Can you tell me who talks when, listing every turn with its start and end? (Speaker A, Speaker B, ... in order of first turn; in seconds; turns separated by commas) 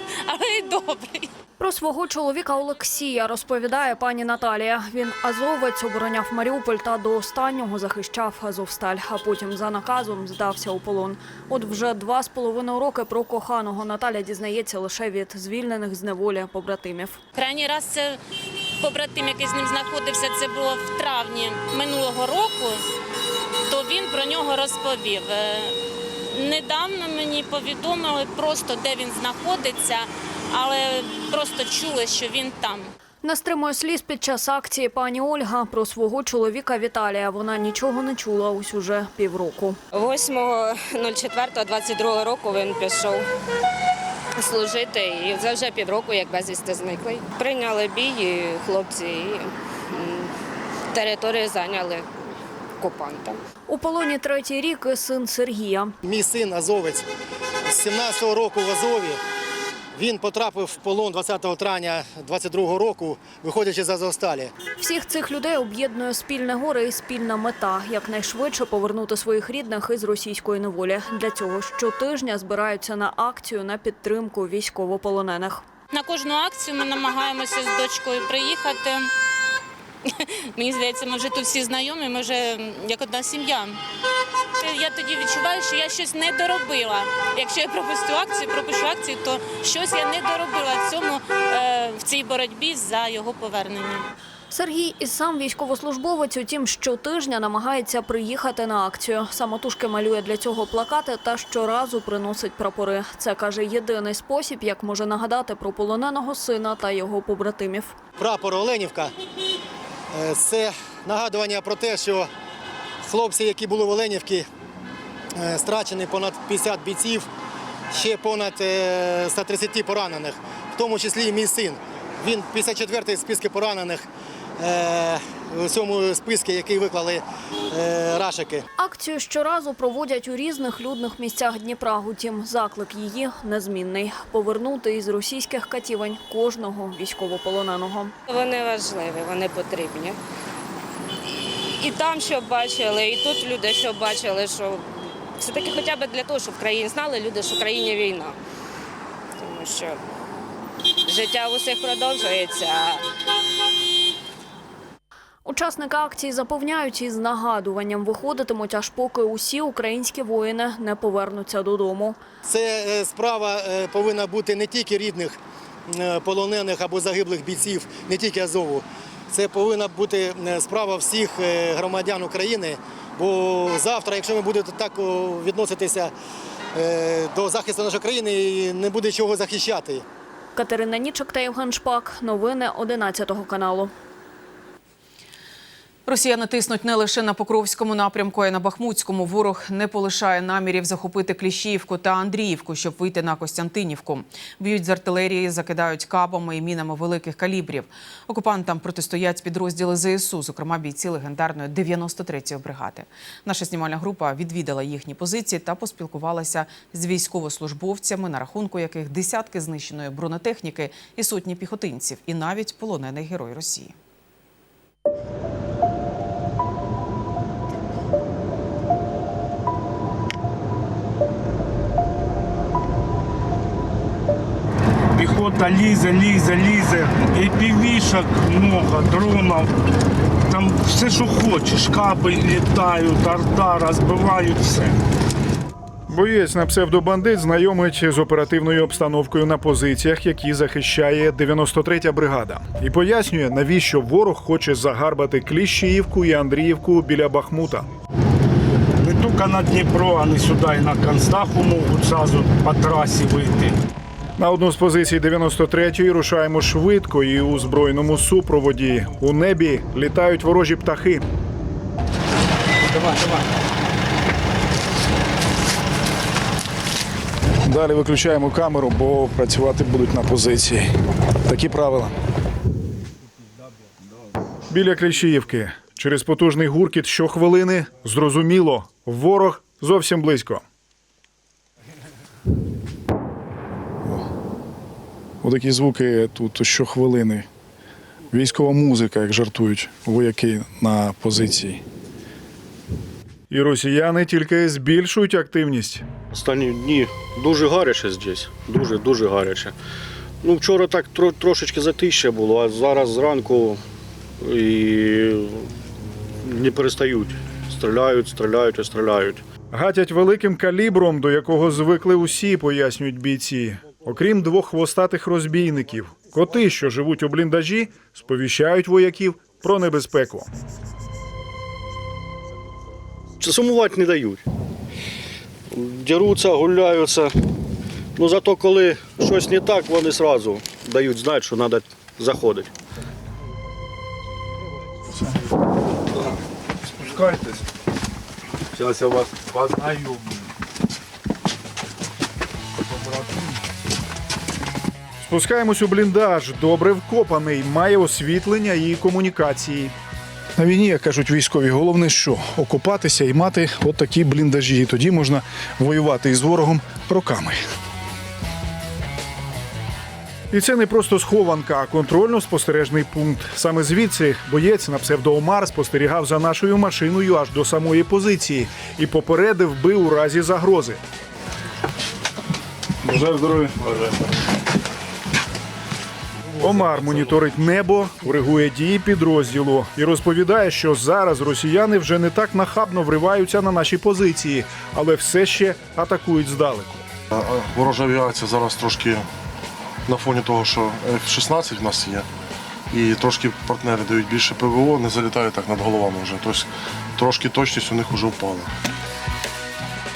Speaker A: 0.3-1.3, Speaker B: 1.6-17.2, Speaker A: 17.4-18.2, Speaker A: 18.8-22.8, Speaker A: 23.7-25.8, Speaker A: 26.3-32.9, Speaker B: 33.2-39.8, Speaker C: 39.9-43.3, Speaker C: 44.4-50.3, Speaker C: 50.9-52.1, Speaker C: 52.8-53.4, Speaker B: 53.7-55.9, Speaker D: 56.0-57.0, Speaker D: 57.7-59.2, Speaker D: 60.0-64.5, Speaker B: 64.8-75.6, Speaker A: 75.9-79.1, Speaker A: 80.1-83.8, Speaker A: 84.6-94.1, Speaker B: 94.5-107.9, Speaker D: 108.2-109.1, Speaker D: 110.2-112.3, Speaker D: 113.0-114.5, Speaker D: 115.4-117.3, Speaker D: 117.9-124.1, Speaker D: 124.6-128.6, Speaker B: 128.8-138.1, Speaker C: 138.3-140.2, Speaker C: 141.3-148.4, Speaker C: 149.4-150.0, Speaker C: 151.1-153.0, Speaker B: 155.4-162.2, Speaker D: 162.4-165.4, Speaker D: 165.9-176.1, Speaker D: 176.8-180.0, Speaker B: 180.6-183.9, Speaker E: 186.1-213.9, Speaker F: 225.1-229.7, Speaker F: 230.5-235.0, Speaker G: 236.1-247.9, Speaker F: 249.0-253.8, Speaker G: 254.4-261.2, Speaker G: 267.7-270.9, Speaker G: 271.4-272.1, Speaker G: 274.7-280.6, Speaker G: 285.4-287.4, Speaker G: 288.3-290.7, Speaker G: 291.4-291.8, Speaker G: 293.5-296.1, Speaker H: 296.3-299.7, Speaker H: 300.4-303.8, Speaker H: 304.4-305.6, Speaker H: 306.4-309.4, Speaker G: 309.7-320.5, Speaker H: 323.4-324.4, Speaker H: 325.7-327.3, Speaker H: 328.2-332.7, Speaker G: 345.2-349.9, Speaker G: 350.6-357.6, Speaker G: 360.5-371.0, Speaker G: 376.6-387.1, Speaker I: 387.3-389.3, Speaker I: 390.1-392.3, Speaker I: 392.9-398.7